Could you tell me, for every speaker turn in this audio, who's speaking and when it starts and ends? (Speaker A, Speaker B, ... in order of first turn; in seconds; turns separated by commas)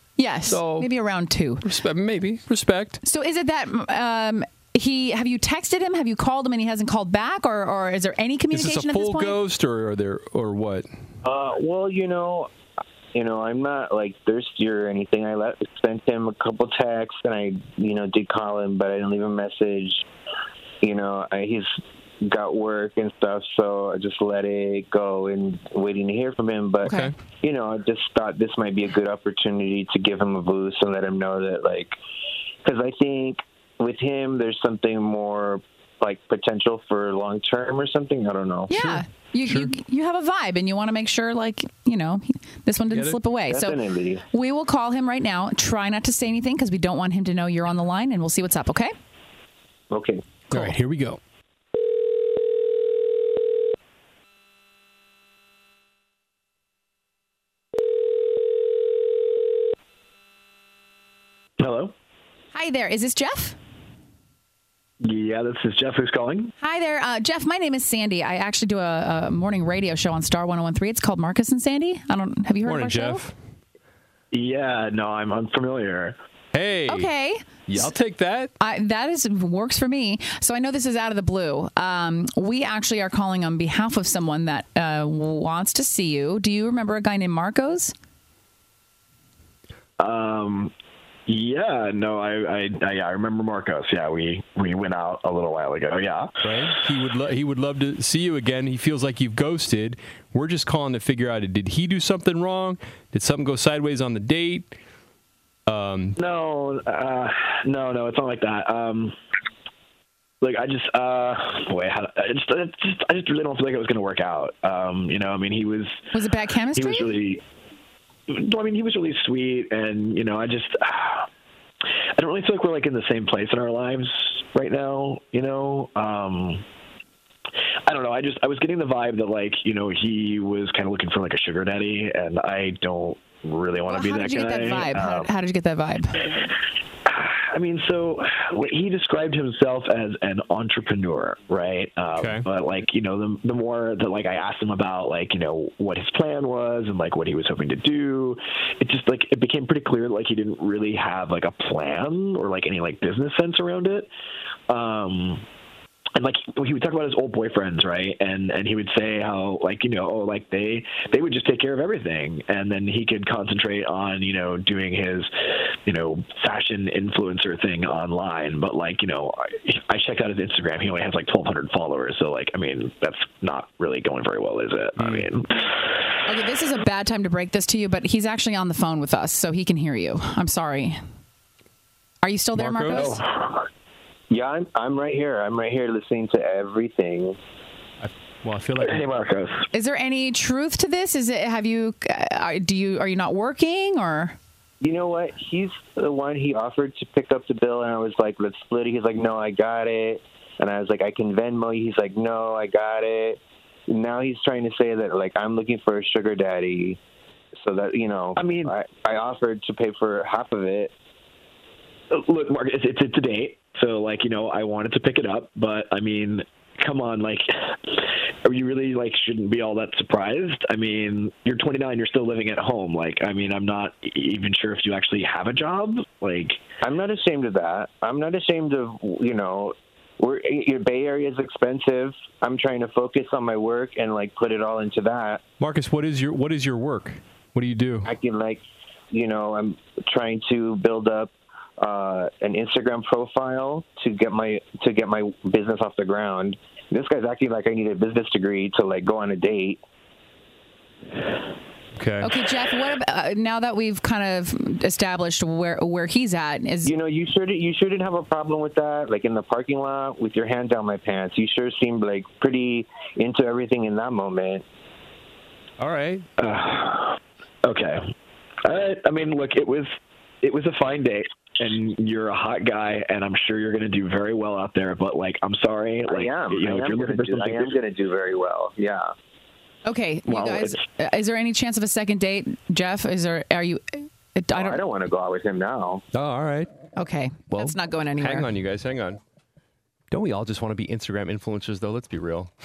Speaker A: 0.2-1.6, Speaker B: 0.5-0.9, Speaker B: 1.6-3.0, Speaker A: 3.0-9.4, Speaker B: 8.5-10.9, Speaker C: 11.2-12.5, Speaker C: 13.1-20.0, Speaker C: 20.8-31.9, Speaker A: 26.9-27.1, Speaker B: 26.9-27.1, Speaker C: 32.6-38.7, Speaker A: 38.7-43.8, Speaker B: 38.7-39.7, Speaker B: 42.9-43.2, Speaker C: 43.5-44.2, Speaker A: 44.3-48.9, Speaker C: 49.9-50.2, Speaker B: 50.5-51.2, Speaker D: 61.6-61.9, Speaker A: 62.5-63.5, Speaker D: 65.0-66.5, Speaker A: 66.6-73.3, Speaker B: 72.6-73.3, Speaker D: 74.3-76.2, Speaker B: 76.5-77.1, Speaker A: 76.9-77.9, Speaker B: 77.7-78.5, Speaker A: 78.6-87.9, Speaker D: 90.0-90.7, Speaker D: 91.3-96.3, Speaker B: 96.4-104.7, Speaker B: 105.7-106.2, Speaker D: 106.2-109.1, Speaker D: 110.4-116.0, Speaker A: 116.1-117.1, Speaker D: 116.7-117.4, Speaker D: 118.3-121.3, Speaker D: 122.2-126.6, Speaker D: 127.8-135.3, Speaker A: 133.9-136.3, Speaker D: 137.1-154.1, Speaker B: 142.1-142.4, Speaker D: 154.7-155.4, Speaker D: 156.2-165.3, Speaker D: 165.8-175.5, Speaker B: 175.0-175.3, Speaker A: 176.2-181.0, Speaker A: 182.2-183.2, Speaker B: 182.5-183.2, Speaker D: 182.9-183.6, Speaker C: 184.3-187.4, Speaker B: 188.0-189.0, Speaker D: 188.8-189.6, Speaker A: 189.7-194.3, Speaker C: 194.8-207.0, Speaker C: 207.6-210.9, Speaker D: 208.4-208.7, Speaker D: 212.1-226.6, Speaker C: 226.8-235.4, Speaker B: 235.6-238.1, Speaker C: 238.0-238.6, Speaker C: 239.1-249.8, Speaker B: 251.9-252.3, Speaker A: 252.2-256.9, Speaker C: 256.8-264.6, Speaker B: 265.8-266.2, Speaker D: 266.4-268.1, Speaker D: 268.6-277.7, Speaker C: 276.1-279.1, Speaker A: 279.9-284.8, Speaker D: 280.3-280.8, Speaker C: 284.5-286.0, Speaker B: 286.1-286.7, Speaker A: 286.9-288.5, Speaker B: 287.5-289.2, Speaker B: 290.1-292.5